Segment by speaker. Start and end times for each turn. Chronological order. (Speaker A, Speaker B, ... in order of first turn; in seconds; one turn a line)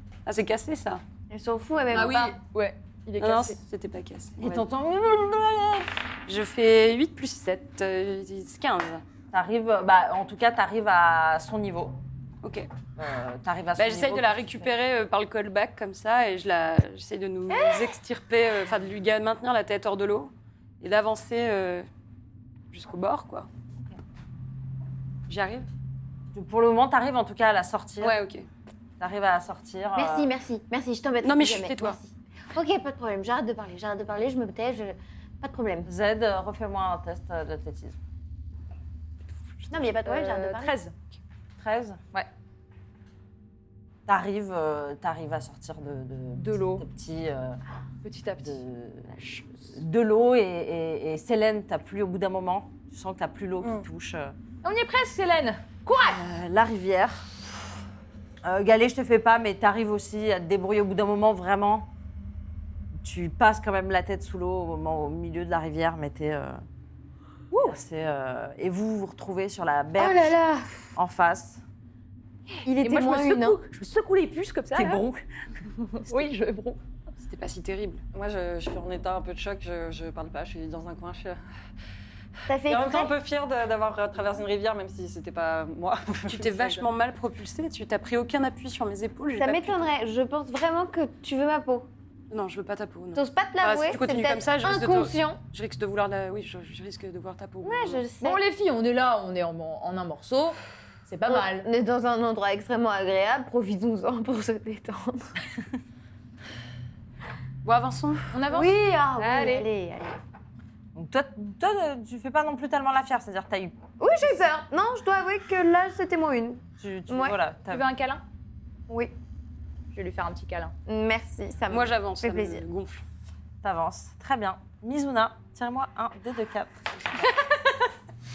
Speaker A: 0.3-1.0
Speaker B: 1.3-2.4
Speaker A: 1.9-2.4
Speaker C: 1.9-3.6
Speaker A: 3.2-4.6
Speaker D: 4.4-5.9
Speaker A: 6.3-9.0
Speaker D: 9.3-12.0
Speaker A: 12.4-12.7
Speaker D: 12.9-14.7
Speaker A: 13.8-21.9
Speaker A: 22.7-23.5
Speaker A: 25.3-25.7
Speaker D: 26.3-28.2
Speaker A: 28.0-28.4
Speaker D: 29.0-30.3
Speaker B: 29.9-35.9
Speaker A: 31.2-32.0
Speaker D: 35.9-38.0
Speaker B: 39.7-40.8
Speaker C: 39.7-40.9
Speaker D: 41.6-42.0
Speaker D: 44.1-47.6
Speaker C: 46.4-46.9
Speaker C: 48.0-48.6
Speaker D: 48.4-54.3
Speaker C: 49.2-49.5
Speaker E: 53.6-53.9
Speaker C: 54.6-56.2
Speaker D: 56.0-57.3
Speaker D: 58.4-61.9
Speaker D: 63.0-66.6
Speaker C: 67.5-67.8
Speaker D: 67.5-70.4
Speaker B: 70.0-70.8
Speaker D: 71.0-71.6
Speaker C: 72.6-75.0
Speaker B: 72.6-73.6
Speaker D: 74.8-75.3
Speaker C: 75.8-76.8
Speaker A: 77.2-78.0
Speaker E: 78.1-81.4
Speaker B: 82.5-83.1
Speaker E: 82.6-86.9
Speaker A: 86.3-89.9
Speaker B: 89.4-91.9
Speaker A: 92.3-98.1
Speaker B: 93.1-95.4
Speaker B: 97.6-98.4
Speaker C: 98.2-101.7
Speaker B: 101.3-105.4
Speaker A: 107.6-108.3
Speaker C: 108.3-109.7
Speaker B: 108.5-110.2
Speaker D: 111.0-113.8
Speaker B: 114.0-117.4
Speaker D: 116.8-117.9
Speaker C: 117.7-118.2
Speaker C: 119.9-120.8
Speaker B: 120.9-122.7
Speaker A: 121.7-123.0
Speaker D: 123.6-127.3